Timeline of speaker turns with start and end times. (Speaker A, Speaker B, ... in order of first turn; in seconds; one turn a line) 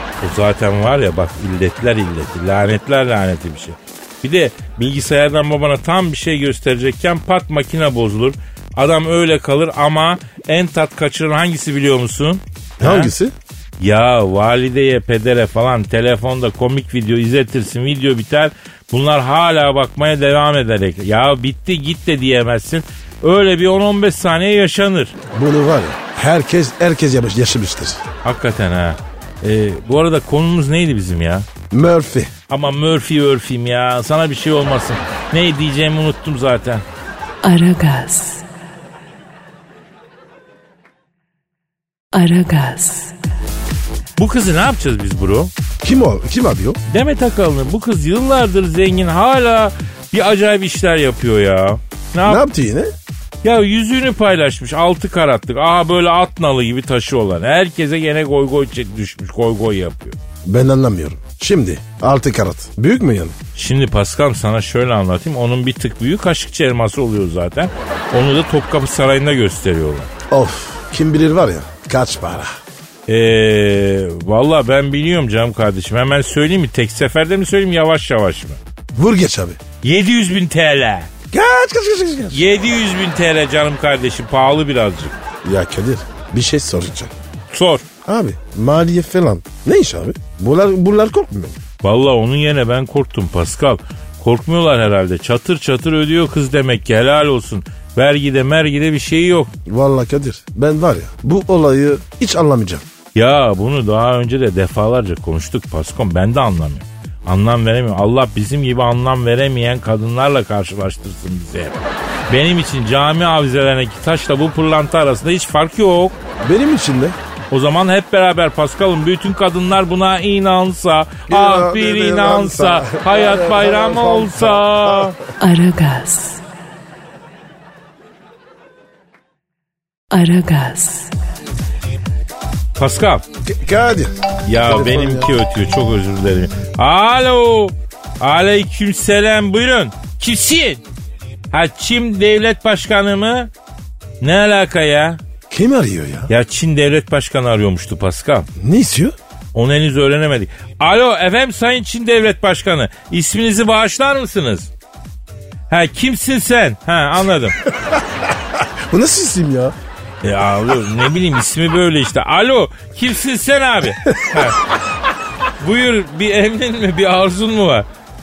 Speaker A: 0.2-13.1
Speaker B: 12.8-13.3
Speaker A: 13.8-25.1
Speaker B: 25.3-28.0
Speaker A: 28.2-31.5
Speaker B: 31.7-32.3
Speaker A: 32.5-36.8
Speaker C: 37.4-38.4
Speaker C: 42.1-43.1
Speaker A: 44.2-45.5
Speaker B: 45.8-46.8
Speaker A: 46.9-52.4
Speaker B: 52.2-52.9
Speaker A: 53.4-60.2
Speaker B: 60.5-63.3
Speaker A: 63.5-70.1
Speaker B: 70.3-72.5
Speaker A: 73.1-78.6
Speaker B: 78.9-79.6
Speaker A: 79.8-81.1
Speaker B: 81.3-82.4
Speaker A: 82.3-85.1
Speaker B: 85.4-87.1
Speaker A: 87.5-87.8
Speaker B: 88.0-91.5
Speaker A: 91.8-99.5
Speaker B: 99.7-102.8
Speaker A: 103.1-116.2
Speaker B: 116.4-117.2
Speaker A: 117.5-125.1
Speaker B: 121.3-125.1
Speaker C: 125.4-126.4
Speaker C: 130.1-131.2
Speaker A: 132.8-133.2
Speaker B: 133.4-135.3
Speaker A: 134.4-140.8
Speaker A: 141.5-143.5
Speaker A: 144.2-145.2
Speaker B: 145.5-146.3
Speaker A: 146.3-148.5
Speaker B: 148.6-149.1
Speaker A: 149.5-154.7
Speaker A: 155.7-157.6
Speaker B: 158.9-159.7
Speaker A: 160.2-164.6
Speaker A: 165.6-167.9